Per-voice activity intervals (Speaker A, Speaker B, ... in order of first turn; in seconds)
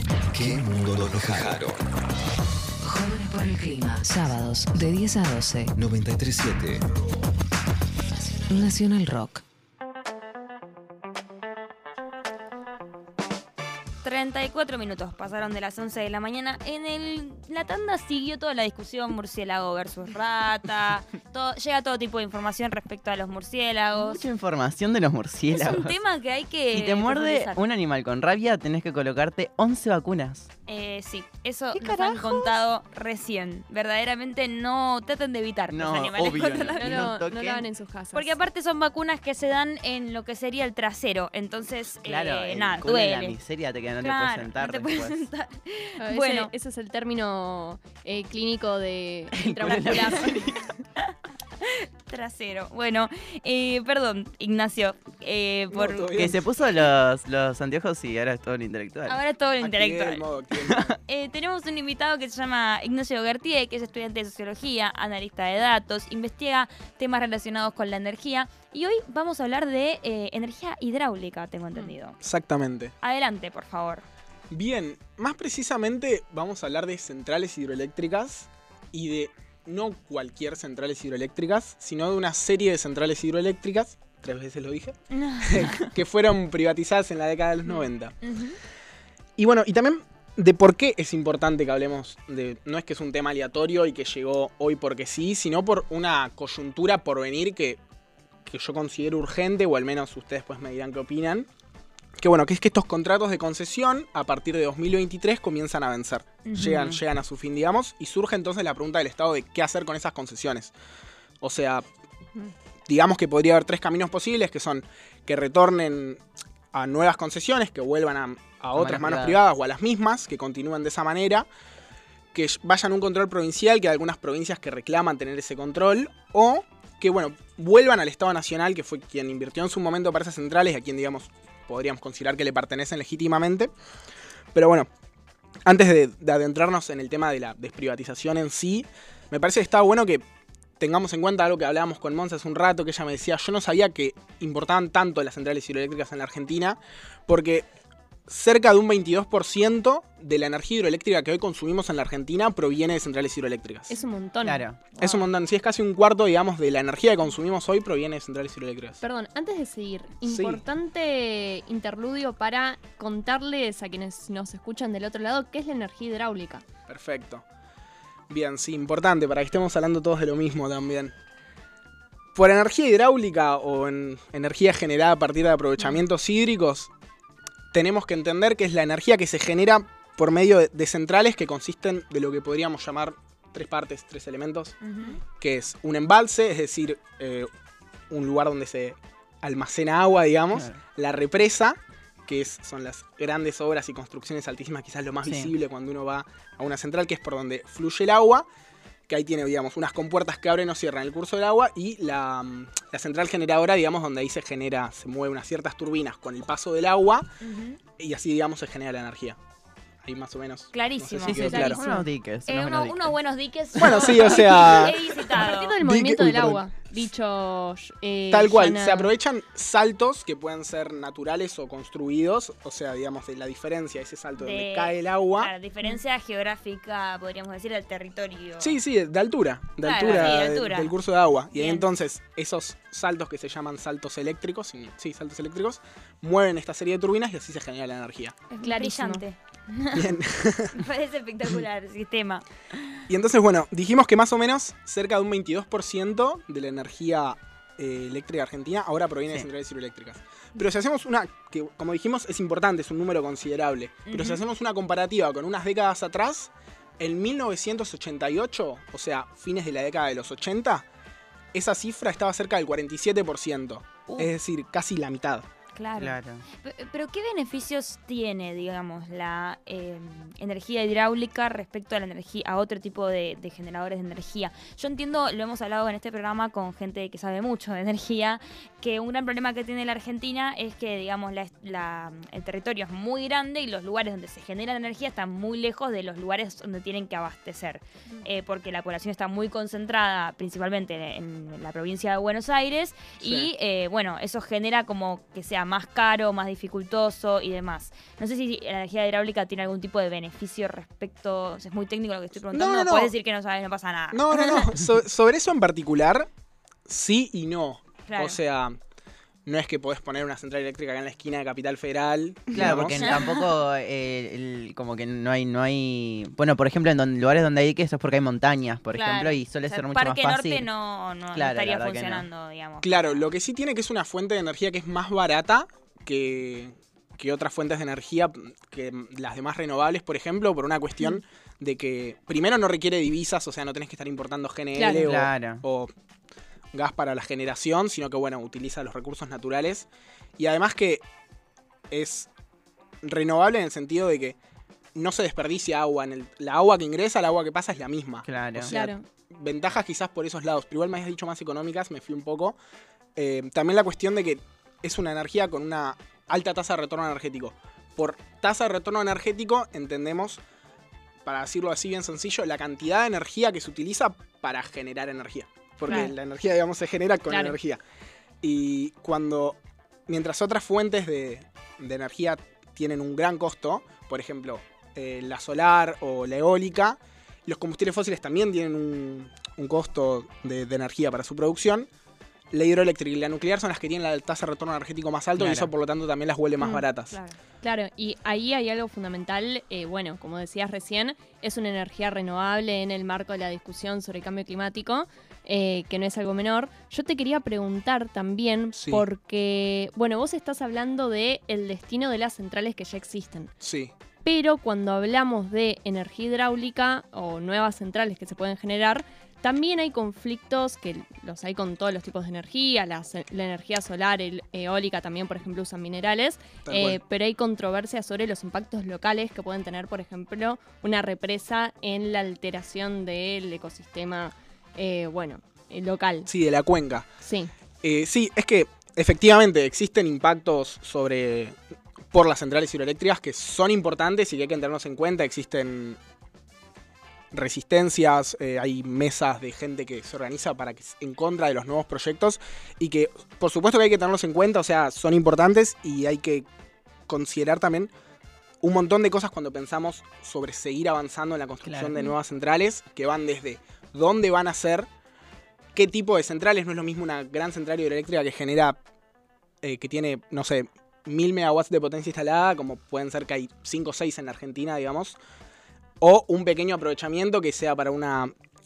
Speaker A: 0.3-1.8, 5.7-6.8
Speaker B: 2.8-5.7, 8.5-9.4
Speaker C: 14.0-24.2, 25.5-27.6, 30.7-37.2, 38.1-43.4, 44.0-46.5, 51.6-56.1, 59.1-60.2, 61.1-72.2, 73.0-74.0, 85.1-85.8, 87.7-88.6, 106.4-106.9, 184.8-185.1, 207.4-207.8, 210.7-211.8, 212.5-215.7, 224.4-228.8, 229.8-230.9, 231.5-231.9, 238.6-240.2, 240.7-242.8, 254.1-254.4, 265.8-304.7, 308.1-308.4, 312.6-313.4, 318.9-323.2, 387.1-387.4
Speaker D: 23.9-26.0, 26.7-30.5, 35.7-37.6, 42.0-45.1, 49.3-50.8, 56.1-59.2, 60.6-60.9, 106.6-107.0, 118.7-119.4, 154.4-154.9, 190.5-190.8, 195.2-195.5, 211.2-213.1, 266.0-266.4, 312.5-320.7, 321.3-322.3, 335.0-335.6, 348.2-348.7, 385.4-385.7, 451.6-452.0
Speaker E: 31.8-32.5, 36.8-38.3, 46.0-50.4, 153.9-154.6, 159.0-166.6, 211.5-212.1, 215.3-219.1, 238.5-239.2, 334.7-335.1, 348.7-349.0, 365.9-366.1, 367.3-367.6, 386.6-386.8, 387.6-403.5, 404.2-426.3, 427.2-427.5
Speaker F: 55.7-56.5, 59.6-60.9, 72.2-72.9, 74.5-88.2, 89.4-97.8, 98.5-101.5, 102.2-110.7, 111.4-111.8, 112.9-116.2, 116.7-121.5, 122.3-133.7, 134.5-134.9, 135.7-140.2, 140.8-147.7, 148.3-154.0, 155.0-159.0, 160.3-160.6, 166.9-167.4, 168.3-171.1, 172.3-176.9, 177.7-184.8, 185.4-187.5, 188.1-198.5, 199.1-207.3, 208.0-209.4, 210.0-211.8, 213.8-216.6, 218.3-225.5, 228.6-238.4, 239.9-240.8, 243.1-260.8, 261.5-265.5, 302.5-303.1, 304.1-306.3, 306.9-308.8, 309.4-313.2, 322.8-335.9, 336.7-339.9, 340.4-341.0, 341.9-342.3, 343.0-344.4, 344.9-352.6, 353.1-360.4, 361.2-367.8, 368.4-381.9, 382.5-387.2, 398.8-399.0, 403.6-403.9, 416.6-417.0, 426.3-427.1, 427.8-431.6, 432.1-436.0, 437.3-446.5, 447.1-447.9, 448.6-454.9, 455.7-458.8, 459.6-465.1, 466.0-468.3